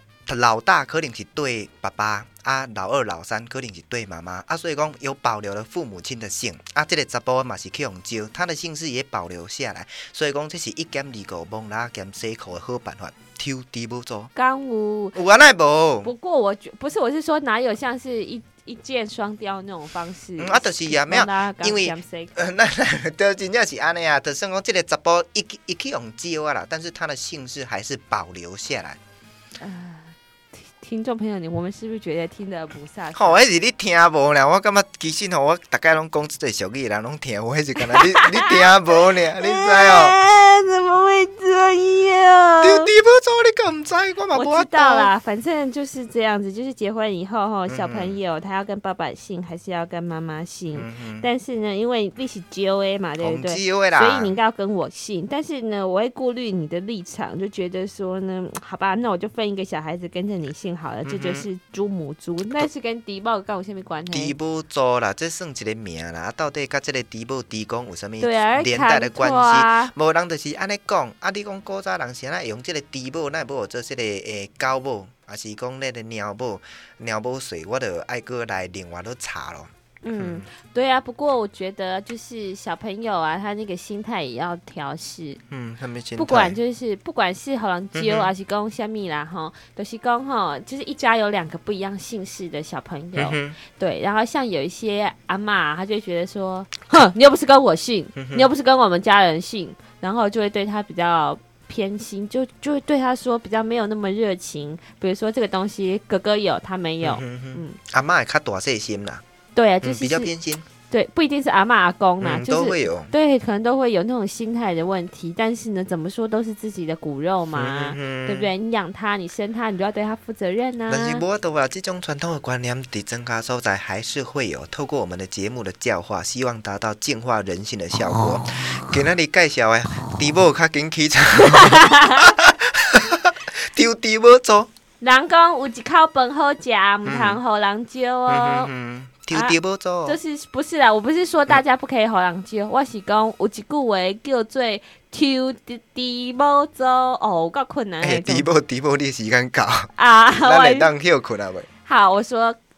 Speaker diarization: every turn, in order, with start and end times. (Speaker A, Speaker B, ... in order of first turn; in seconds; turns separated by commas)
Speaker A: 0.3-14.3, Speaker B: 14.3-15.2, Speaker A: 15.1-16.1, Speaker B: 16.0-22.3, Speaker A: 20.4-29.0, Speaker B: 29.6-33.4, Speaker A: 33.1-40.1, Speaker B: 37.8-42.9, Speaker A: 42.6-45.1, Speaker B: 44.3-64.4, Speaker A: 47.7-48.1, Speaker A: 50.8-51.3, Speaker A: 53.2-54.4, Speaker A: 61.0-61.5, Speaker A: 64.1-80.5, Speaker B: 68.2-69.9, Speaker B: 80.0-85.4, Speaker A: 85.5-86.6, Speaker B: 86.2-107.8, Speaker A: 87.9-88.3, Speaker A: 93.2-93.6, Speaker A: 98.2-98.5, Speaker A: 107.0-109.2, Speaker B: 109.5-110.3, Speaker A: 109.8-110.6, Speaker B: 110.9-121.2, Speaker A: 112.2-113.1, Speaker A: 117.5-118.5, Speaker A: 120.9-134.7, Speaker B: 131.4-132.3, Speaker B: 135.0-138.7, Speaker A: 137.1-137.4, Speaker A: 138.3-140.2, Speaker B: 139.3-148.5, Speaker A: 148.0-151.7, Speaker B: 149.9-150.9, Speaker B: 151.8-152.6